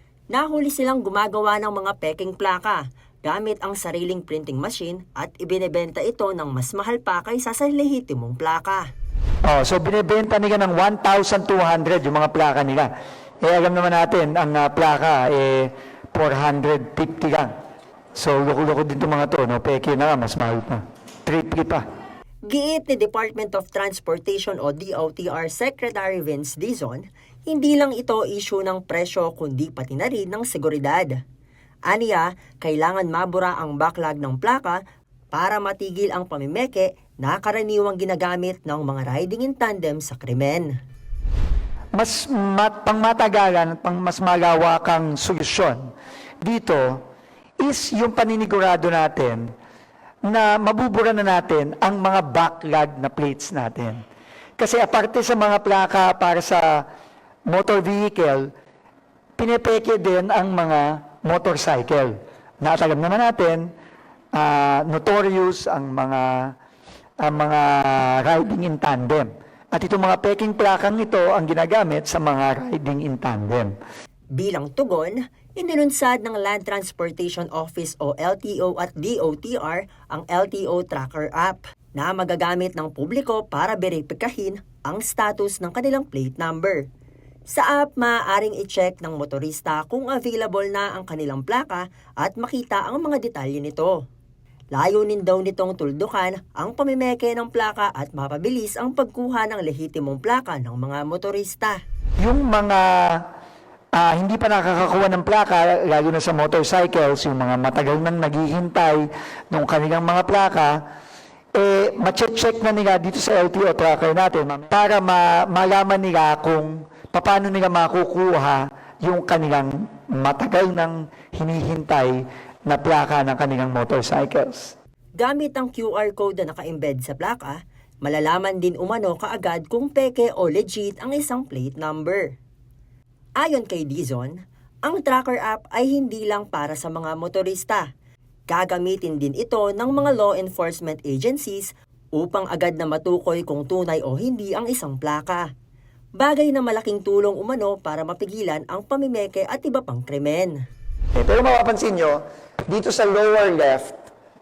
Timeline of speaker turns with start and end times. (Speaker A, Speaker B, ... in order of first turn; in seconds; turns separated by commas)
Speaker A: 0.3-8.9, Speaker B: 9.5-12.9, Speaker B: 13.4-17.5, Speaker B: 18.1-21.8, Speaker A: 22.5-31.2, Speaker A: 31.9-40.7, Speaker B: 42.0-45.9, Speaker B: 46.4-47.0, Speaker B: 47.6-49.5, Speaker B: 50.3-54.0, Speaker B: 54.6-56.9, Speaker B: 57.5-58.5, Speaker B: 59.4-63.7, Speaker B: 64.3-66.5, Speaker B: 67.2-73.7, Speaker A: 74.3-86.9, Speaker A: 87.5-94.0, Speaker A: 94.7-101.8, Speaker B: 102.2-103.2, Speaker B: 104.0-110.8, Speaker B: 111.5-124.7, Speaker A: 125.2-132.4, Speaker A: 133.4-137.9, Speaker A: 138.5-145.5, Speaker A: 146.2-150.6, Speaker B: 151.2-154.0